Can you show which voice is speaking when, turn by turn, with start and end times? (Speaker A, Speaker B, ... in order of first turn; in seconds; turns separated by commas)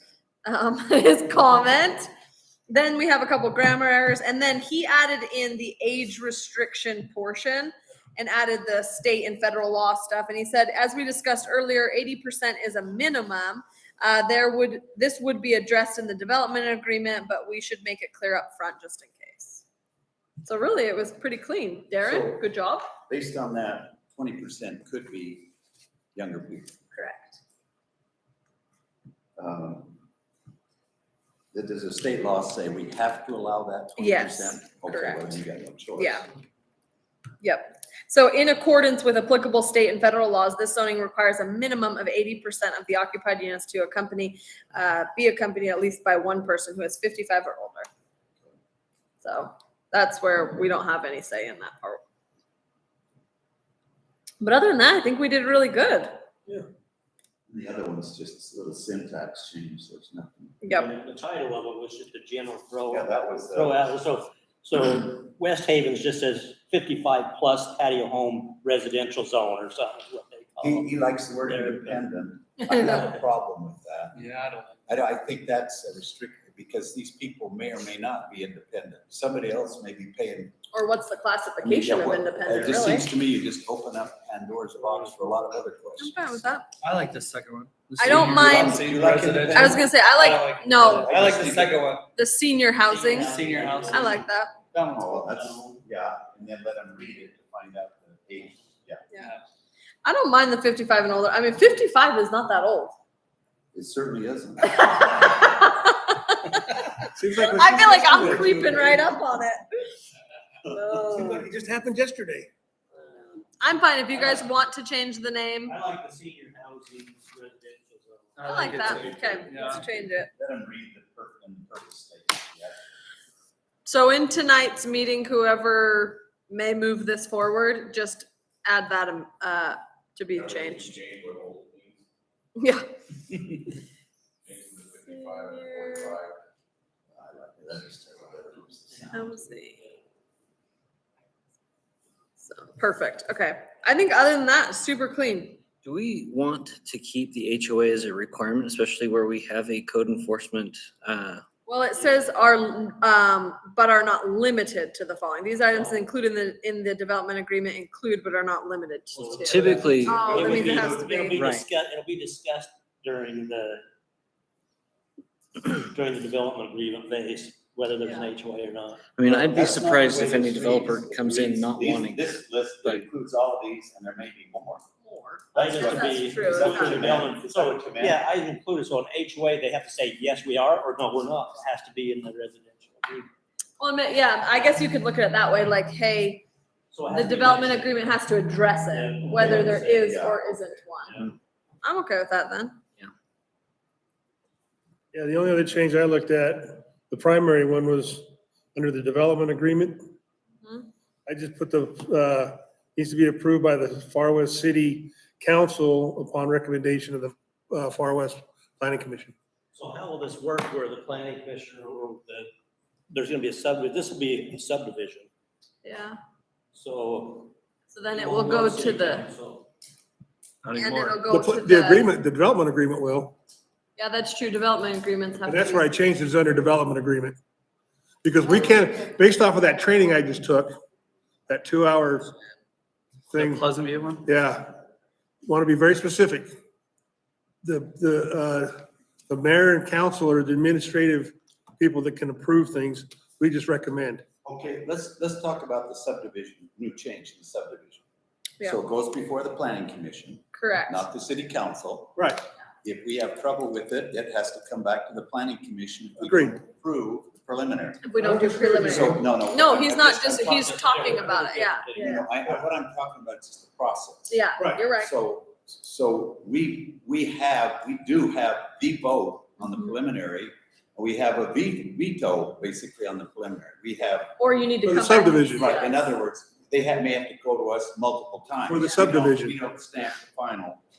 Speaker A: 0.4-2.1, Speaker A: 2.7-19.6, Speaker A: 20.4-22.9, Speaker B: 22.0-22.4, Speaker B: 23.1-25.5, Speaker B: 26.1-26.8, Speaker A: 26.9-27.4, Speaker B: 29.4-30.0, Speaker B: 31.5-36.3, Speaker A: 34.0-35.4, Speaker A: 36.0-36.3, Speaker A: 37.4-47.9, Speaker A: 49.2-52.0, Speaker A: 54.4-56.1, Speaker B: 57.5-60.6, Speaker A: 60.6-60.9, Speaker C: 60.7-70.9, Speaker B: 62.9-63.9, Speaker B: 70.6-74.2, Speaker C: 71.4-72.0, Speaker A: 72.6-73.0, Speaker D: 74.2-74.8, Speaker B: 74.9-80.5, Speaker A: 80.7-83.1, Speaker B: 81.6-86.6, Speaker A: 86.0-86.7, Speaker D: 86.8-92.1, Speaker A: 88.0-91.1, Speaker B: 88.0-89.9, Speaker B: 90.7-91.9, Speaker A: 92.2-93.3, Speaker C: 92.9-94.2, Speaker D: 93.3-94.2, Speaker A: 93.9-94.5, Speaker B: 94.7-99.0, Speaker C: 95.1-95.8, Speaker A: 100.0-103.0, Speaker B: 103.7-105.3, Speaker A: 104.7-110.0, Speaker E: 107.1-109.0, Speaker A: 110.7-111.5, Speaker E: 111.1-112.5, Speaker A: 113.6-115.8, Speaker C: 114.1-114.5, Speaker C: 115.7-118.7, Speaker D: 118.4-119.8, Speaker A: 118.5-120.3, Speaker B: 118.5-122.8, Speaker A: 123.8-131.0, Speaker B: 131.0-131.8, Speaker A: 132.6-132.9, Speaker B: 134.5-135.0, Speaker A: 135.1-136.2, Speaker B: 137.1-139.4, Speaker A: 139.1-139.8, Speaker A: 142.4-145.6, Speaker F: 145.8-151.4, Speaker A: 151.7-161.4, Speaker C: 155.7-156.0, Speaker C: 159.1-163.8, Speaker F: 159.4-160.2, Speaker B: 160.3-160.6, Speaker F: 161.3-161.6, Speaker C: 165.6-169.0, Speaker A: 168.1-168.3, Speaker F: 169.2-172.3, Speaker B: 169.2-174.8, Speaker A: 175.0-177.0, Speaker B: 175.5-178.2, Speaker C: 175.5-183.3, Speaker A: 183.8-186.4, Speaker C: 186.9-188.1, Speaker A: 187.1-191.2, Speaker C: 188.9-190.2, Speaker B: 189.4-190.4, Speaker C: 191.1-191.3, Speaker A: 191.8-192.8, Speaker E: 195.1-200.0, Speaker E: 201.3-209.3, Speaker C: 209.7-212.5, Speaker C: 213.1-215.3, Speaker A: 215.8-216.2, Speaker C: 216.7-217.5, Speaker A: 217.9-219.3, Speaker C: 218.1-219.7, Speaker D: 220.6-221.2, Speaker A: 220.7-222.1, Speaker E: 221.2-223.4, Speaker A: 224.0-226.0, Speaker E: 225.4-227.4, Speaker E: 228.2-230.7, Speaker A: 228.4-228.9, Speaker E: 231.5-232.3, Speaker E: 233.3-233.6, Speaker D: 233.3-234.2, Speaker E: 234.2-234.8, Speaker E: 235.4-236.5, Speaker E: 237.6-244.2, Speaker B: 244.4-248.0, Speaker B: 248.6-252.2, Speaker A: 250.5-251.1, Speaker E: 252.2-252.4, Speaker B: 252.8-258.1, Speaker E: 256.2-256.6, Speaker A: 258.0-262.2, Speaker E: 258.2-259.2, Speaker B: 258.8-261.0, Speaker C: 260.2-262.2, Speaker B: 261.9-274.3, Speaker A: 264.3-265.1, Speaker A: 274.4-276.1, Speaker E: 274.8-275.7, Speaker B: 275.5-280.8, Speaker E: 278.7-279.6